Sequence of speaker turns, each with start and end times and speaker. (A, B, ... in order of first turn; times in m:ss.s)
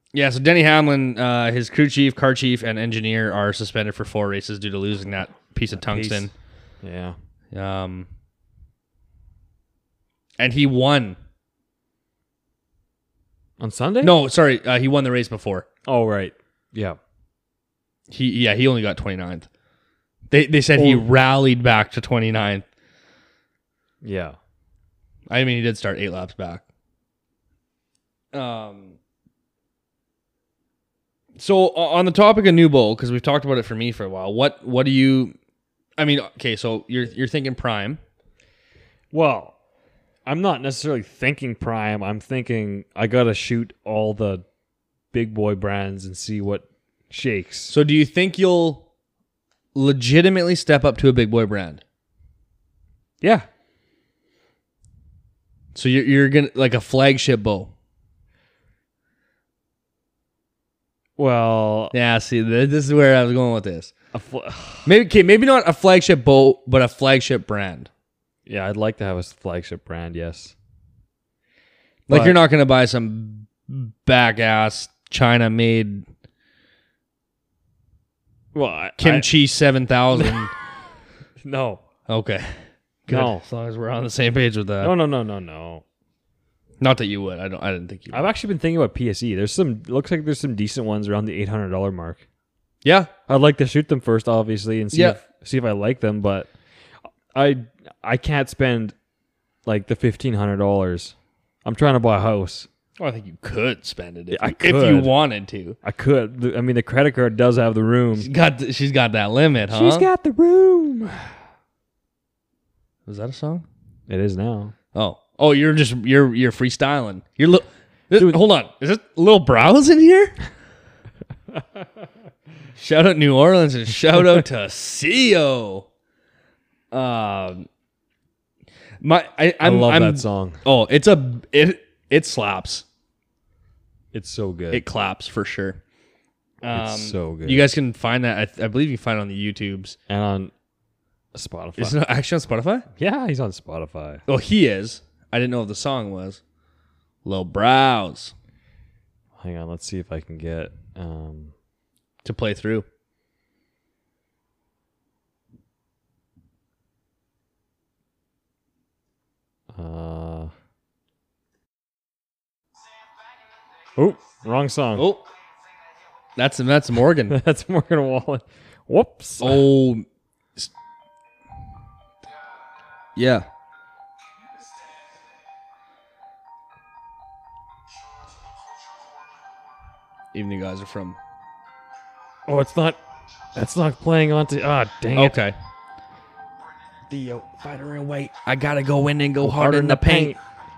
0:00.1-0:06.3 A
0:05.7-0:06.3 B
0:06.8-0:07.2 B
0:07.5-0:08.1 A
0:10.4-0:11.2 A
0:13.6-0:14.2 B
0:14.0-0:15.7 A
0:15.9-0:17.0 B
0:18.1-0:19.5 A
0:20.3-0:22.6 A
0:20.8-0:21.0 B
0:24.0-0:24.4 B
0:25.3-0:26.6 A
0:28.3-0:29.0 A
0:31.4-0:35.4 A
0:36.0-0:38.0 A
0:39.1-0:39.6 B
0:40.3-0:44.4 B
0:45.1-0:47.7 B
0:47.7-0:48.9 A
0:49.7-0:51.8 A
0:53.2-0:53.5 B
0:55.7-0:57.7 A
1:01.2-1:01.9 B
1:01.9-1:03.9 A
1:04.1-1:04.9 B
1:04.8-1:07.9 A
1:08.5-1:10.5 B
1:12.1-1:16.1 A
1:12.1-1:12.4 B
1:18.5-1:19.3 B
1:19.0-1:20.5 A
1:20.2-1:20.5 B
1:21.4-1:21.8 B
1:22.1-1:24.9 A
1:23.1-1:23.5 B
1:24.8-1:25.8 B
1:26.8-1:28.3 A
1:28.1-1:32.2 B
1:32.8-1:33.1 A
1:33.3-1:36.5 B
1:34.9-1:35.2 A
1:37.3-1:39.0 B
1:39.7-1:41.1 B
1:41.6-1:42.7 B
1:43.0-1:45.8 A
1:44.3-1:45.1 B
1:45.8-1:48.3 B
1:48.2-1:50.1 A
1:49.7-1:51.3 B
1:53.1-1:53.7 A
1:54.1-1:54.7 B
1:54.9-2:00.4 A
2:02.8-2:05.9 A
2:06.9-2:07.7 A
2:09.0-2:12.8 A
2:09.6-2:10.6 B
2:14.1-2:14.8 B
2:14.7-2:15.8 A
2:16.6-2:20.0 A
2:16.7-2:17.7 B
2:20.1-2:20.5 B
2:21.4-2:22.0 B
2:21.8-2:22.9 A
2:23.0-2:24.2 B
2:24.3-2:26.4 A
2:27.2-2:28.3 A
2:29.4-2:31.5 B
2:32.2-2:32.9 A
2:39.8-2:40.5 B
2:44.0-2:45.1 B
2:45.0-2:45.3 A
2:46.4-2:47.4 A
2:47.3-2:49.6 B
2:49.4-2:50.7 A
2:53.2-2:53.5 A
3:00.3-3:01.2 A
3:02.5-3:03.0 B
3:03.6-3:05.4 B
3:05.1-3:05.6 A
3:07.1-3:07.5 B
3:07.5-3:10.4 A
3:09.4-3:10.4 B